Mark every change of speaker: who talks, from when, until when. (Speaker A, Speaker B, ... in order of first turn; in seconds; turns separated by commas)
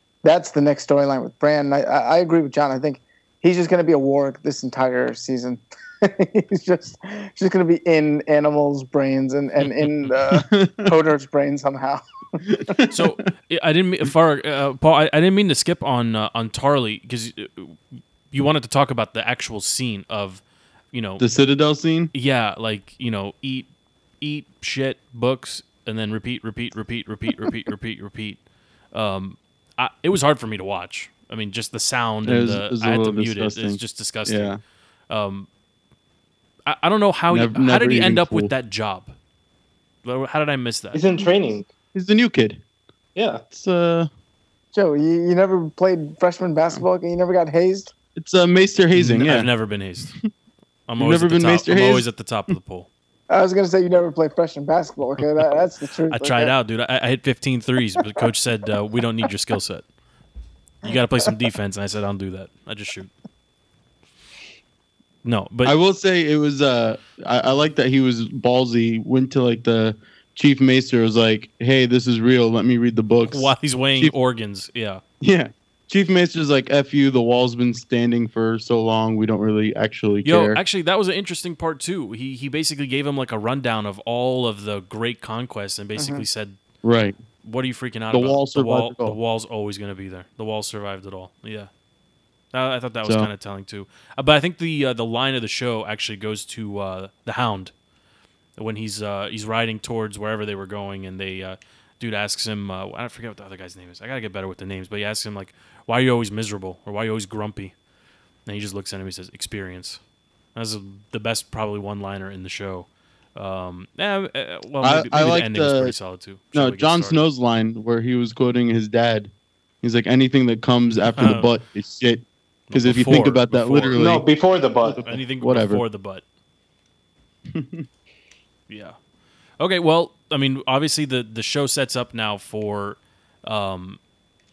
Speaker A: 0.2-12.5, Speaker B: 10.3-10.9, Speaker B: 12.7-13.0, Speaker C: 12.9-21.3, Speaker B: 21.2-22.1, Speaker C: 22.1-23.7, Speaker C: 24.2-28.4, Speaker C: 28.9-34.6, Speaker B: 32.2-34.6, Speaker C: 35.1-35.5, Speaker C: 36.7-39.1, Speaker B: 37.3-38.5, Speaker C: 40.0-41.0, Speaker D: 40.9-41.7, Speaker B: 41.9-42.6, Speaker D: 43.1-43.4, Speaker B: 43.5-44.1, Speaker A: 44.7-47.9, Speaker B: 48.1-49.5, Speaker C: 48.9-50.1, Speaker C: 50.9-52.9, Speaker B: 51.0-52.5, Speaker A: 53.3-56.5, Speaker C: 56.1-59.9, Speaker C: 60.8-63.1, Speaker C: 65.2-65.8, Speaker B: 65.6-74.1, Speaker C: 73.3-75.0, Speaker B: 75.2-80.6, Speaker C: 80.2-86.6, Speaker A: 86.0-86.2, Speaker B: 86.8-87.2, Speaker C: 87.4-91.7, Speaker B: 88.1-89.2, Speaker C: 92.5-97.7, Speaker B: 93.0-93.3, Speaker C: 98.6-107.7, Speaker C: 108.5-110.0, Speaker C: 110.5-117.2, Speaker B: 114.8-115.9, Speaker B: 116.5-119.3, Speaker B: 119.8-124.2, Speaker C: 121.2-121.5, Speaker C: 122.7-124.0, Speaker D: 124.0-125.1, Speaker B: 124.8-125.8, Speaker C: 125.0-126.2, Speaker B: 127.5-127.9, Speaker C: 128.7-128.9, Speaker C: 129.6-134.0